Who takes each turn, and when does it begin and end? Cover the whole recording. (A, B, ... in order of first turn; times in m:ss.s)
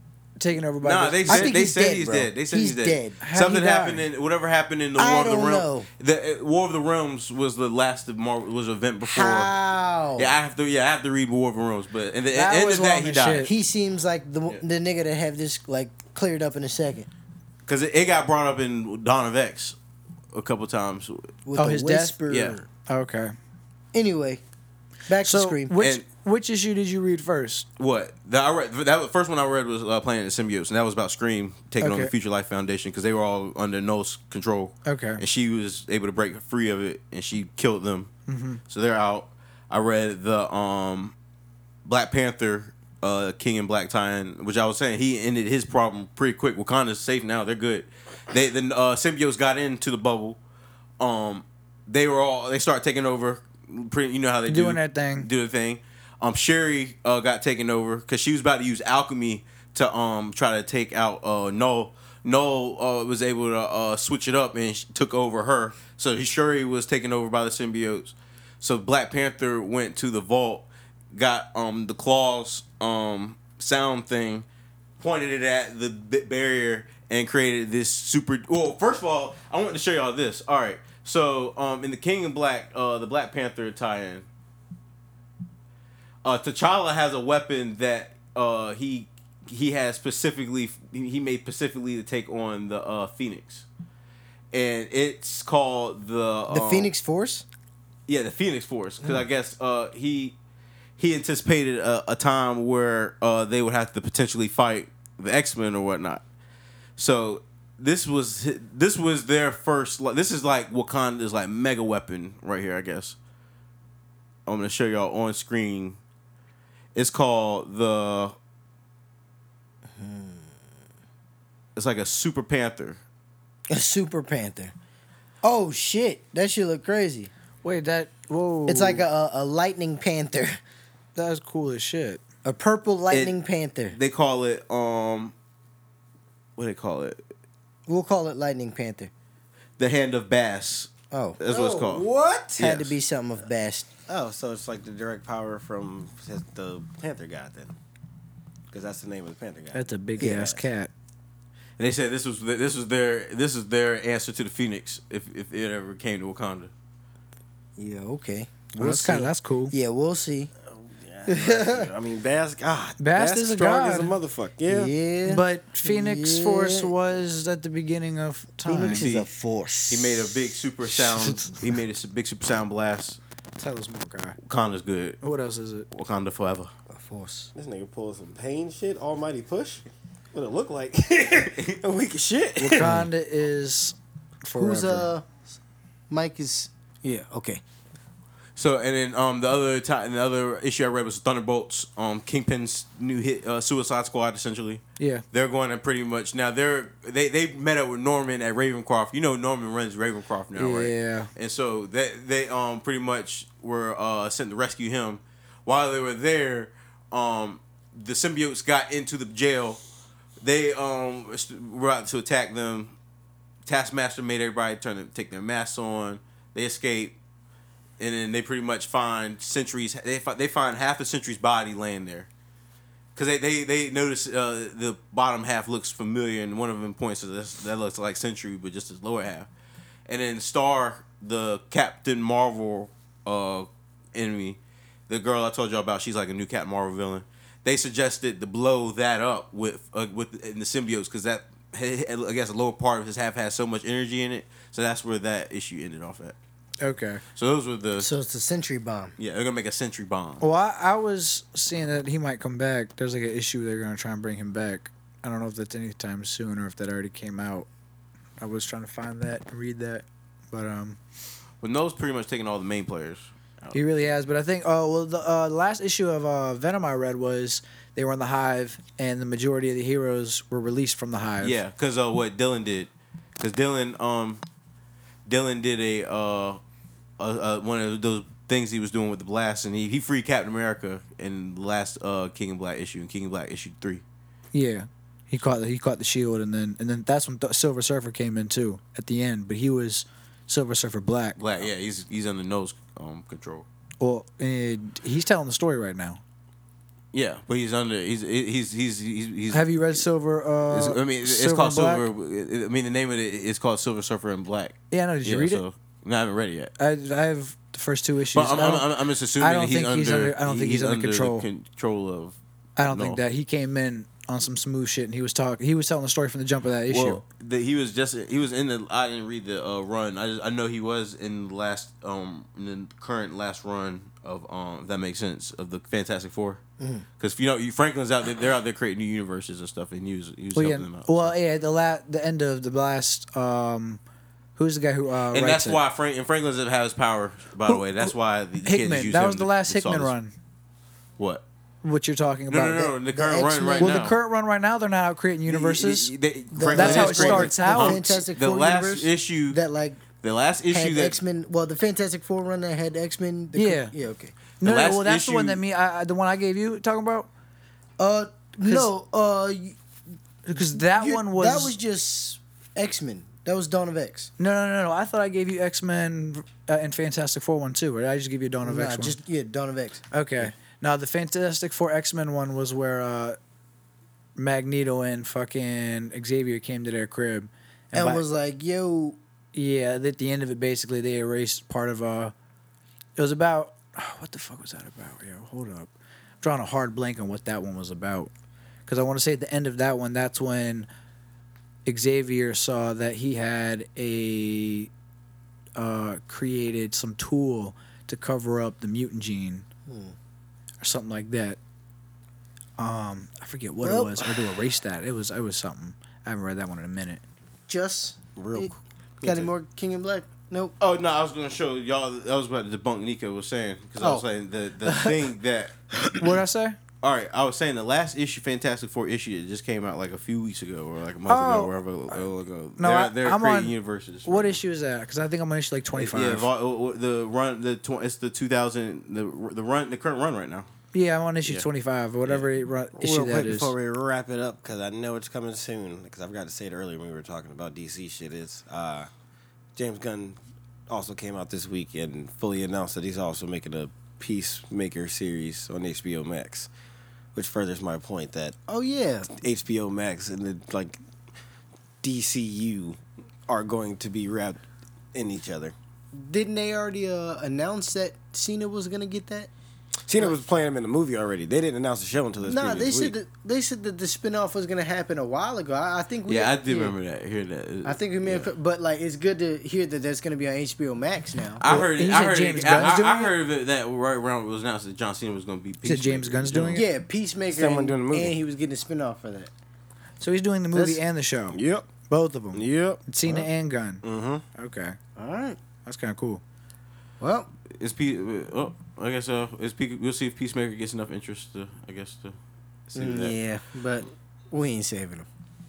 0:00.4-0:01.6 A
0:00.8-0:09.5 B
0:01.3-0:03.2 C
0:03.2-0:04.0 A
0:05.0-0:05.9 C
0:09.0-0:10.3 C
0:10.2-0:13.5 B
0:12.3-0:13.5 A
0:13.4-0:17.1 C
0:17.6-0:19.8 B
0:20.3-0:21.3 B
0:21.4-0:22.7 C
0:21.6-0:22.2 A
0:22.3-0:22.6 B
0:22.9-0:23.3 A
0:23.9-0:24.4 C
0:25.1-0:25.7 C
0:25.2-0:27.6 A
0:25.8-0:26.0 B
0:27.8-0:38.1 B
0:31.8-0:32.1 A
0:34.8-0:35.2 A
0:38.3-0:38.6 A
0:38.7-0:41.1 B
0:41.8-0:50.4 B
0:51.0-1:14.4 B
0:54.5-0:55.3 A
1:15.0-1:24.2 B
1:26.2-1:33.6 B
1:34.5-1:36.9 B
1:36.5-1:37.4 C
1:38.1-1:40.3 B
1:41.0-1:46.2 B
1:47.0-1:53.2 B
1:54.4-1:56.0 B
1:56.9-1:58.3 B
2:00.0-2:00.5 C
2:01.8-2:03.0 B
2:03.7-2:04.7 C
2:05.4-2:07.3 C
2:07.6-2:09.0 A
2:08.7-2:10.6 C
2:11.1-2:12.2 A
2:12.4-2:14.0 C
2:13.1-2:13.3 B
2:13.9-2:15.3 B
2:16.6-2:17.2 B
2:17.9-2:19.1 C
2:19.8-2:22.0 B
2:21.1-2:21.6 C
2:21.5-2:22.9 D
2:22.5-2:23.9 C
2:24.1-2:27.7 D
2:28.7-2:30.6 D
2:29.7-2:30.9 A
2:30.2-2:30.5 C
2:31.8-2:36.7 B
2:37.8-2:40.5 C
2:38.8-2:39.7 A
2:41.0-2:44.9 D
2:41.2-2:41.9 C
2:43.0-2:44.1 A
2:44.7-2:46.9 C
2:45.2-2:49.1 A
2:48.6-2:50.4 C
2:48.8-2:49.3 B
2:49.9-2:53.2 B
2:50.9-2:51.6 A
2:53.6-2:54.4 A
2:54.5-2:55.2 B
2:55.2-2:55.9 A
2:55.9-2:56.7 B
2:56.9-2:57.5 C
2:57.5-3:02.9 D
3:02.6-3:05.1 A
3:02.8-3:03.1 C
3:04.5-3:05.4 C
3:06.1-3:07.6 C
3:08.6-3:29.8 B
3:15.0-3:15.2 A
3:20.6-3:21.3 A
3:30.4-3:32.9 B
3:33.6-3:37.2 B
3:38.0-3:42.3 B
3:43.2-3:49.5 B
3:50.1-3:54.6 B
3:55.1-4:06.3 B
4:06.8-4:07.2 A
4:07.4-4:08.1 B
4:08.0-4:09.1 C
4:09.2-4:10.4 B
4:10.4-4:17.7 A
4:18.4-4:21.0 A
4:21.6-4:23.8 B
4:23.7-4:31.6 A
4:31.4-4:34.4 B
4:35.2-4:36.6 B
4:37.2-4:44.0 B
4:44.5-4:51.7 A
4:51.4-4:53.6 B
4:54.0-4:56.2 A
4:57.1-5:00.0 B
4:59.5-5:02.0 A
5:00.7-5:06.7 B
5:04.9-5:05.6 A
5:06.8-5:08.8 A
5:08.3-5:12.4 B
5:09.4-5:11.4 A
5:12.8-5:17.2 A
5:12.9-5:13.2 B
5:16.9-5:26.6 B
5:26.8-5:27.0 C
5:27.2-5:31.3 B
5:30.5-5:34.0 A
5:34.6-5:35.8 A
5:35.3-5:40.1 B
5:37.6-5:38.1 A
5:38.6-5:40.3 A
5:41.8-5:43.0 A
5:42.5-5:44.1 B
5:43.1-5:44.0 C
5:43.8-5:46.1 A
5:45.5-5:49.6 B
5:46.5-5:50.0 C
5:46.7-5:48.0 A
5:50.2-5:51.2 B
5:50.7-5:54.3 C
5:53.5-5:53.9 A
5:54.6-5:57.3 A
5:54.6-5:55.6 B
5:58.0-5:59.8 C
6:00.4-6:01.7 A
6:00.5-6:04.3 C
6:04.4-6:09.2 A
6:08.6-6:10.5 C
6:10.1-6:13.4 A
6:14.4-6:18.2 A
6:17.9-6:19.2 C
6:19.5-6:22.3 A
6:23.2-6:25.9 A
6:26.4-6:28.3 A
6:28.9-6:30.9 A
6:31.8-6:34.9 A
6:35.8-6:39.6 A
6:39.9-6:40.1 C
6:40.8-6:41.6 A
6:42.8-6:47.2 A
6:43.8-6:44.3 C
6:47.7-6:50.7 C
6:48.4-6:49.5 D
6:50.8-6:55.7 B
6:54.0-6:54.2 C
6:54.8-6:55.2 C
6:56.2-6:56.8 A
6:57.0-7:04.6 B
7:01.3-7:01.7 A
7:02.8-7:03.7 A
7:04.2-7:06.5 A
7:05.9-7:10.7 B
7:10.9-7:13.7 A
7:13.0-7:19.1 D
7:19.8-7:20.4 D
7:20.9-7:26.7 D
7:27.3-7:28.5 D
7:28.7-7:29.3 C
7:29.3-7:31.0 D
7:32.0-7:34.6 D
7:35.1-7:35.7 D
7:36.1-7:39.5 C
7:40.1-7:43.1 D
7:42.4-7:46.9 C
7:46.3-7:48.5 B
7:47.8-7:51.9 C
7:51.6-7:56.8 B
7:51.7-7:53.3 A
7:55.8-7:56.9 A
7:56.7-7:59.5 C
7:57.5-7:58.3 D
8:00.2-8:04.0 A
8:00.7-8:01.0 C
8:01.5-8:01.9 D
8:02.5-8:03.4 D
8:04.0-8:04.4 D
8:04.6-8:05.0 A
8:05.2-8:05.6 C
8:05.8-8:06.4 A
8:07.2-8:07.5 C
8:07.8-8:12.4 B
8:12.9-8:13.4 B
8:13.0-8:15.3 C